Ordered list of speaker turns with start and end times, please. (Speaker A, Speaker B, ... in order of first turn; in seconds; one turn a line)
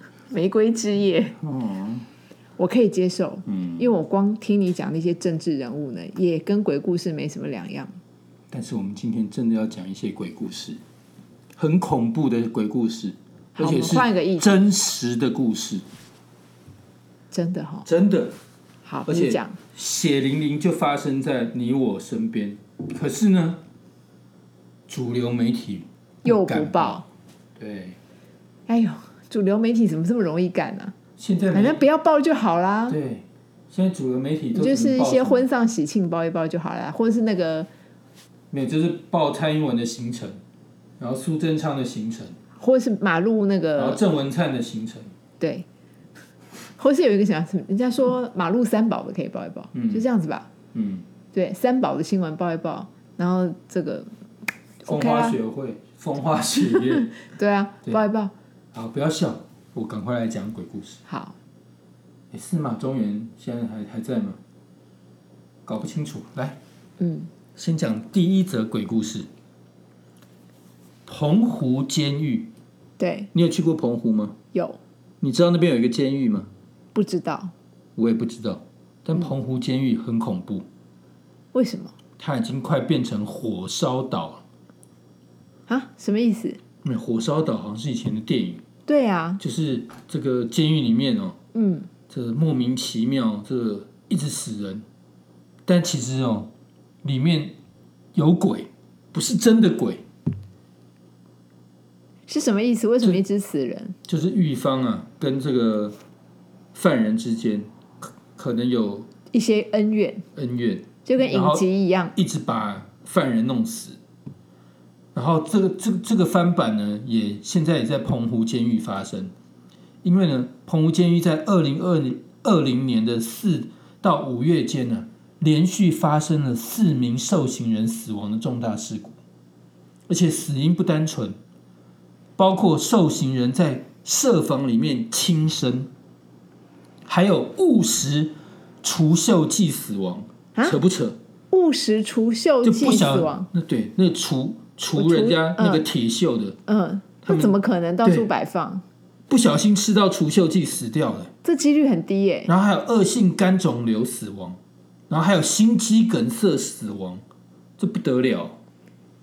Speaker A: 0.3-1.4
Speaker B: 1.4-2.1
Speaker A: 2.6-7.9
Speaker B: 3.5-3.9
Speaker B: 8.5-10.8
Speaker B: 11.6-15.8
Speaker A: 13.6-14.5
Speaker A: 17.3-17.9
Speaker B: 17.9-18.4
Speaker A: 18.9-19.6
Speaker B: 19.1-23.6
Speaker B: 24.9-27.0
Speaker A: 26.2-27.1
Speaker B: 27.6-28.0
Speaker A: 28.7-30.9
Speaker B: 31.2-31.8
Speaker A: 31.5-33.0
Speaker B: 32.9-35.5
Speaker A: 34.5-37.7
Speaker B: 38.5-40.4
Speaker B: 41.0-42.4
Speaker A: 42.6-44.0
Speaker B: 43.8-45.1
Speaker A: 45.4-45.7
Speaker A: 46.8-50.5
Speaker B: 49.7-50.0
Speaker B: 50.7-51.0
Speaker A: 51.3-54.1
Speaker A: 54.8-55.4
Speaker B: 54.9-57.2
Speaker A: 56.7-58.3
Speaker B: 58.7-61.0
Speaker A: 61.1-61.4
Speaker B: 62.3-64.4
Speaker B: 65.7-66.6
Speaker A: 67.0-67.3
Speaker B: 67.6-69.3
Speaker B: 71.1-72.5
Speaker A: 73.0-73.3
Speaker B: 73.3-74.4
Speaker A: 74.5-74.8
Speaker B: 75.2-76.5
Speaker A: 76.9-77.5
Speaker B: 78.0-80.7
Speaker A: 81.5-81.9
Speaker B: 82.2-84.4
Speaker A: 85.7-86.6
Speaker B: 86.8-88.6
Speaker A: 88.9-89.4
Speaker B: 89.4-91.4
Speaker A: 91.5-91.9
Speaker B: 92.1-94.8
Speaker B: 95.7-96.5
Speaker B: 97.0-97.5
Speaker B: 98.2-100.0
Speaker A: 102.3-104.0
Speaker B: 104.1-106.0
Speaker B: 106.7-107.7
Speaker B: 108.3-109.1
Speaker A: 109.3-110.2
Speaker B: 110.4-114.0
Speaker A: 111.1-112.2
Speaker B: 115.1-119.3
Speaker B: 120.0-129.2
Speaker B: 130.1-131.4
Speaker B: 132.4-135.9
Speaker B: 137.1-141.2
Speaker A: 141.5-143.5
Speaker B: 142.6-146.6
Speaker A: 145.0-145.8
Speaker A: 146.7-148.8
Speaker B: 147.2-148.3
Speaker B: 149.3-151.3
Speaker A: 151.4-152.5
Speaker B: 152.5-154.6
Speaker B: 155.1-157.2
Speaker B: 157.8-158.6